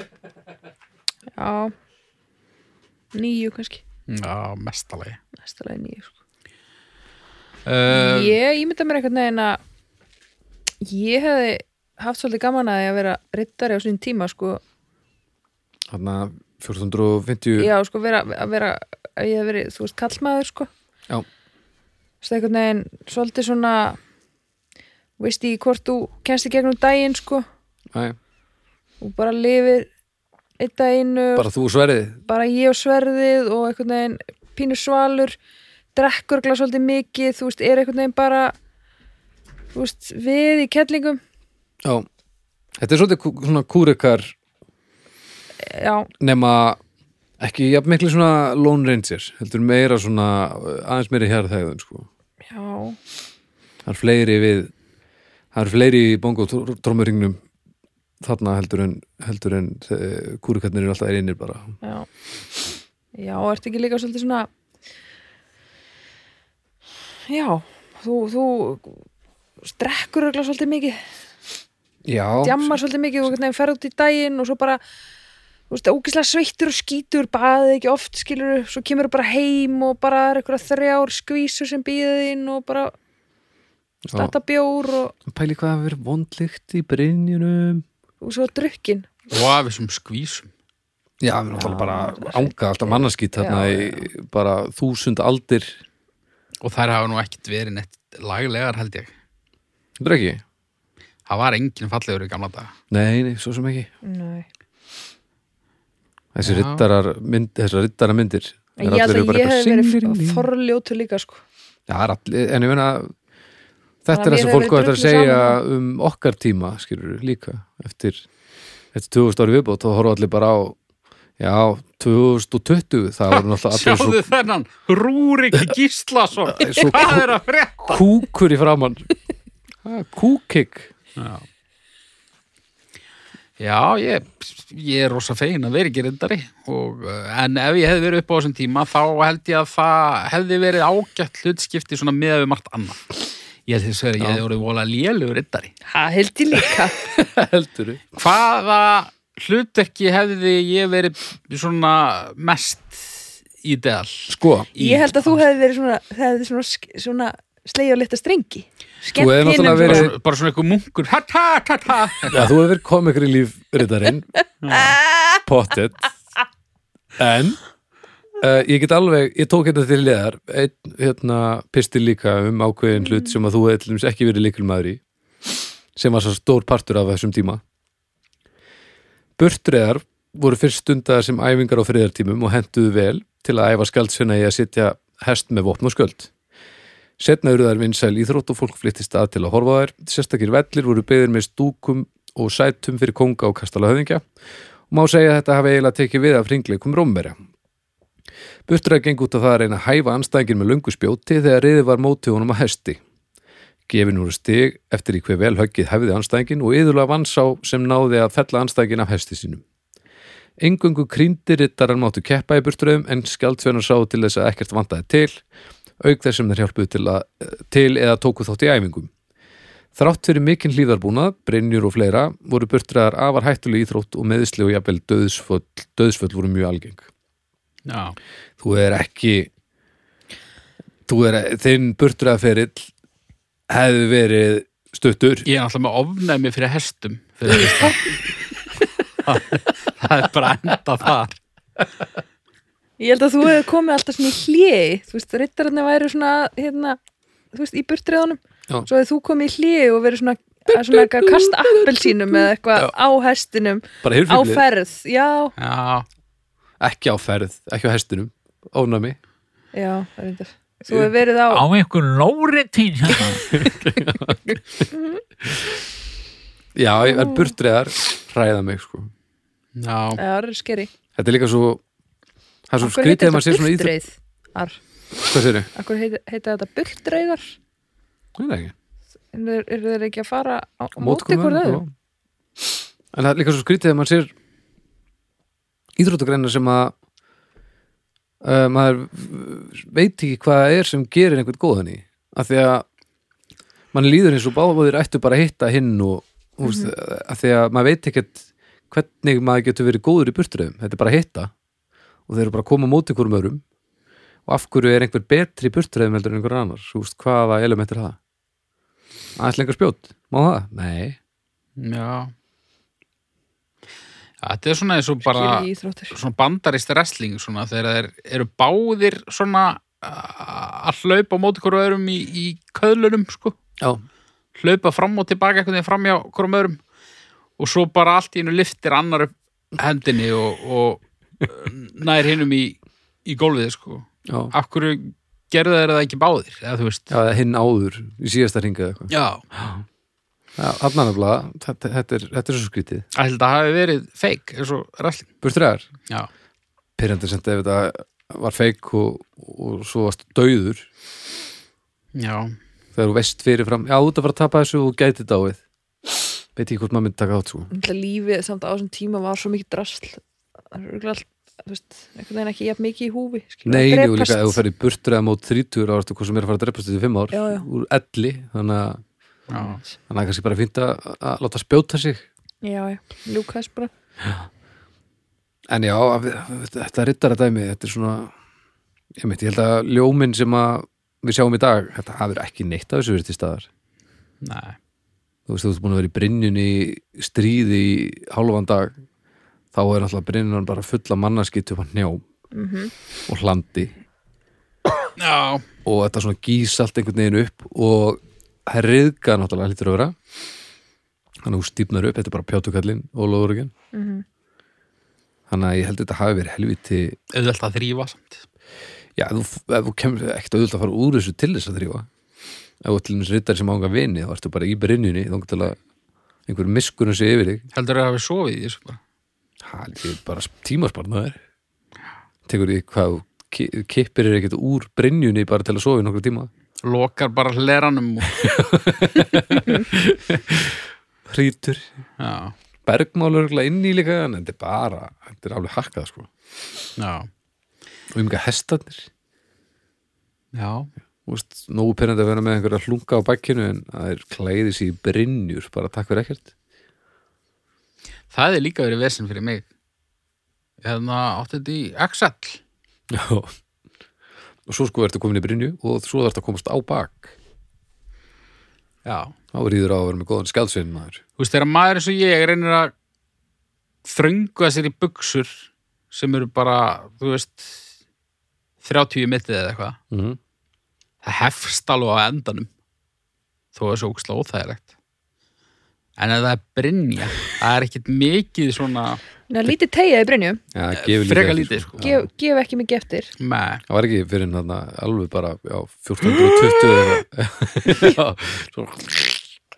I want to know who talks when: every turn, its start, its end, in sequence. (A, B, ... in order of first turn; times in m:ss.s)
0:01.4-0:01.7 A
0:03.1-0:03.8 A
0:04.1-0:05.2 B
0:05.4-0:06.1 A
0:07.7-0:08.4 B
0:07.9-0:09.6 A
0:10.8-0:14.6 A
0:15.9-0:17.7 C
0:17.6-0:20.7 A
0:22.2-0:24.0 A
0:25.2-0:27.4 A
0:29.0-0:29.9 A
0:30.6-0:31.5 A
0:31.4-0:32.2 C
0:32.3-0:35.4 A
0:36.0-0:38.6 A
0:39.7-0:41.2 A
0:42.8-0:44.3 C
0:45.6-0:46.1 A
0:46.2-0:46.8 C
0:47.4-0:52.1 C
0:52.5-0:53.0 A
0:53.8-0:54.7 C
0:55.5-0:57.4 C
0:58.2-1:01.8 C
1:01.8-1:02.1 A
1:03.2-1:04.5 A
1:07.3-1:09.0 A
1:09.6-1:11.0 A
1:12.0-1:12.8 C
1:12.4-1:14.8 A
1:15.7-1:22.9 A
1:24.1-1:24.3 C
1:24.2-1:25.1 A
1:25.3-1:27.8 C
1:28.2-1:29.1 A
1:29.3-1:30.5 B
1:31.2-1:35.8 C
1:31.6-1:34.1 A
1:36.6-1:39.1 B
1:40.0-1:40.4 C
1:41.3-1:42.7 B
1:42.9-1:43.9 C
1:44.0-1:44.5 A
1:46.3-1:50.5 C
1:46.4-1:46.9 B
1:48.8-1:51.4 A
1:51.9-1:53.1 C
1:54.0-1:58.2 C
1:54.1-1:55.6 A
1:58.9-2:00.8 C
2:01.4-2:04.2 C
2:03.3-2:08.0 B
2:06.5-2:07.3 C
2:07.9-2:09.1 C
2:09.8-2:10.9 C
2:11.2-2:11.4 B
2:13.6-2:23.1 B
2:23.7-2:25.7 B
2:25.9-2:27.0 A
2:27.0-2:28.0 C
2:28.2-2:35.4 B
2:34.3-2:34.7 C
2:34.8-2:40.1 A
2:39.2-2:40.1 C
2:39.6-2:42.4 B
2:42.3-2:44.3 C
2:44.6-2:45.0 B
2:45.4-2:46.1 C
2:47.2-2:47.6 C
2:48.4-2:57.6 C
2:59.4-3:06.3 C
3:07.2-3:14.3 C
3:14.9-3:17.4 C
3:18.7-3:23.0 C
3:23.9-3:29.6 C
3:30.6-3:35.4 C
3:36.0-3:39.1 C
3:40.0-3:47.1 C
3:47.9-3:48.2 B
3:48.6-3:49.5 C
3:51.1-3:52.9 C
3:53.7-3:55.5 C
3:55.4-3:58.2 B
3:59.2-4:01.4 B
4:03.0-4:07.0 A
4:07.5-4:15.5 A
4:10.7-4:12.9 C
4:14.0-4:14.6 C
4:15.6-4:16.1 B
4:16.8-4:19.2 C
4:19.7-4:21.6 A
4:21.5-4:23.6 D
4:23.1-4:23.6 A
4:23.5-4:24.8 C
4:24.9-4:25.2 A
4:25.4-4:25.7 C
4:26.8-4:29.1 C
4:27.1-4:27.5 A
4:29.8-4:30.2 B
4:30.2-4:30.9 A
4:31.2-4:31.8 C
4:32.7-4:34.0 C
4:32.8-4:34.8 A
4:35.2-4:35.7 C
4:35.8-4:37.5 A
4:38.4-4:38.7 C
4:39.3-4:41.8 A
4:41.0-4:41.9 C
4:42.6-4:44.3 C
4:46.0-4:47.0 C
4:48.4-4:52.8 C
4:53.9-5:01.5 C
4:56.6-4:56.9 A
5:02.3-5:03.6 C
5:04.5-5:08.2 C
5:09.4-5:11.2 C
5:11.8-5:12.3 B
5:14.4-5:23.6 B
5:15.3-5:16.2 A
5:24.6-5:26.8 B
5:27.6-5:37.1 B
5:34.3-5:34.5 C
5:37.1-5:39.8 C
5:39.1-5:39.4 B
5:40.6-5:43.1 C
5:43.2-5:45.3 B
5:45.4-5:45.9 C
5:47.0-5:50.9 C
5:52.2-5:52.6 B
5:53.0-5:57.7 C
5:57.7-6:04.6 A
6:03.7-6:09.0 C
6:07.3-6:07.6 A
6:09.5-6:09.8 B
6:10.1-6:12.3 C
6:12.6-6:13.9 A
6:15.7-6:18.3 C
6:19.2-6:23.7 C
6:24.4-6:24.8 B
6:25.5-6:29.0 C
6:29.7-6:32.2 C
6:32.5-6:32.9 A
6:33.3-6:33.9 C
6:35.2-6:35.6 B
6:35.8-6:40.2 C
6:41.4-6:43.7 C
6:43.9-6:44.2 A
6:45.5-6:47.2 C
6:47.3-6:48.4 B
6:49.2-6:52.1 C
6:52.8-6:55.8 C
6:56.5-6:57.6 C
6:57.7-6:59.0 B
6:59.6-7:01.4 C
7:02.5-7:06.5 C
7:06.8-7:09.2 B
7:08.4-7:11.9 C
7:12.2-7:12.5 B
7:12.9-7:16.3 C
7:17.0-7:17.3 B
7:18.1-7:19.1 C
7:20.5-7:20.9 B
7:21.3-7:26.5 C
7:28.3-7:29.7 B
7:30.8-7:32.6 B
7:33.1-7:33.5 C
7:34.7-7:37.4 C
7:39.0-7:39.3 B
7:39.5-7:41.2 C
7:41.4-7:42.9 B
7:44.1-7:47.8 B
7:48.8-7:50.0 B
7:50.1-7:50.4 C
7:51.2-7:52.7 B
7:53.8-7:54.9 B
7:56.2-7:59.2 B
7:59.5-8:00.6 A
8:00.7-8:02.3 C
8:00.9-8:02.0 B
8:02.0-8:03.3 A
8:03.4-8:03.8 B
8:03.9-8:09.5 C
8:06.3-8:07.2 B